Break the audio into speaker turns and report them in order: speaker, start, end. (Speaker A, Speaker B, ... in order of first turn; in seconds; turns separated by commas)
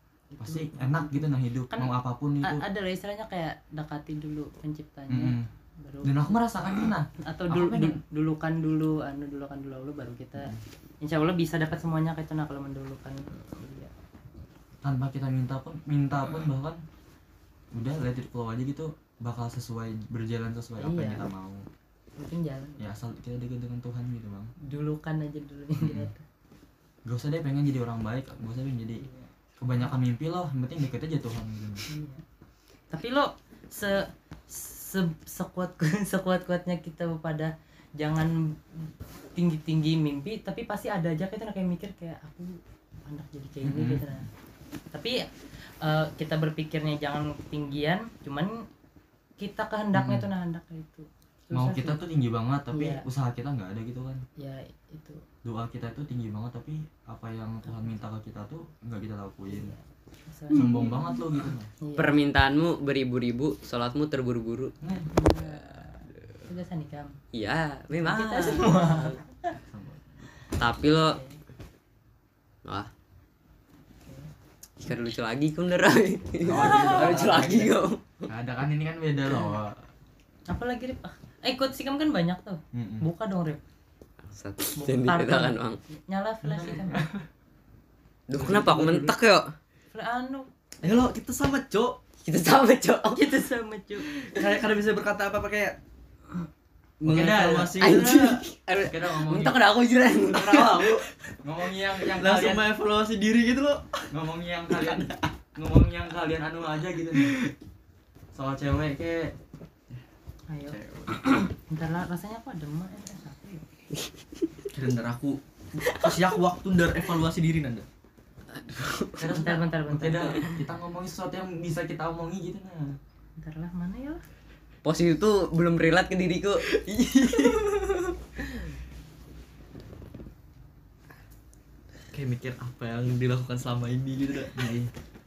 Speaker A: 0.3-1.9, Speaker B: 0.4-2.6, Speaker A: 2.4-6.4, Speaker B: 5.1-5.5, Speaker B: 6.0-8.0, Speaker A: 7.2-13.9, Speaker B: 10.4-10.6, Speaker B: 14.8-16.8, Speaker B: 17.7-21.6, Speaker A: 20.8-21.3, Speaker A: 22.2-22.9, Speaker B: 22.8-24.5, Speaker A: 24.6-26.2, Speaker B: 25.8-26.1, Speaker B: 27.1-29.0, Speaker A: 29.0-29.3, Speaker B: 29.6-31.9, Speaker A: 31.9-32.2, Speaker A: 32.9-44.3, Speaker B: 43.6-44.2, Speaker A: 44.9-48.6, Speaker A: 49.4-52.0, Speaker B: 49.9-50.3, Speaker B: 51.5-54.2, Speaker A: 52.7-53.0, Speaker A: 54.4-55.2, Speaker B: 55.4-59.8, Speaker A: 57.7-58.0, Speaker A: 59.5-61.1, Speaker B: 60.5-61.7, Speaker A: 61.8-62.1, Speaker C: 62.0-64.7, Speaker B: 64.8-65.1, Speaker A: 65.1-67.2, Speaker C: 67.3-68.8, Speaker A: 68.0-69.5, Speaker D: 68.6-69.2, Speaker B: 68.7-69.0, Speaker B: 69.7-70.1, Speaker C: 70.6-71.2, Speaker A: 70.8-71.4, Speaker C: 74.8-78.0, Speaker B: 76.5-77.4, Speaker D: 76.5-77.7, Speaker A: 76.7-77.1, Speaker B: 78.3-79.8, Speaker A: 80.5-83.6, Speaker B: 82.7-83.1, Speaker C: 84.3-85.8, Speaker A: 84.8-87.0, Speaker B: 86.4-87.2, Speaker C: 88.3-89.5, Speaker D: 88.3-89.2, Speaker A: 89.9-90.5, Speaker D: 90.8-92.0, Speaker C: 92.2-93.2, Speaker A: 93.1-94.1, Speaker D: 94.2-95.8, Speaker D: 97.0-98.4, Speaker B: 97.0-97.9, Speaker C: 97.8-101.0, Speaker B: 98.8-99.6, Speaker B: 100.3-102.8, Speaker D: 102.1-104.1, Speaker B: 104.1-107.4, Speaker B: 108.3-109.3, Speaker A: 110.5-110.8, Speaker D: 110.7-111.4, Speaker A: 111.3-113.7, Speaker D: 114.7-117.9, Speaker C: 115.9-116.2, Speaker C: 118.5-119.4, Speaker B: 119.2-123.0, Speaker A: 119.2-120.4, Speaker A: 123.4-124.2, Speaker C: 124.8-126.6, Speaker D: 126.7-128.1, Speaker D: 132.1-134.7, Speaker B: 134.6-134.9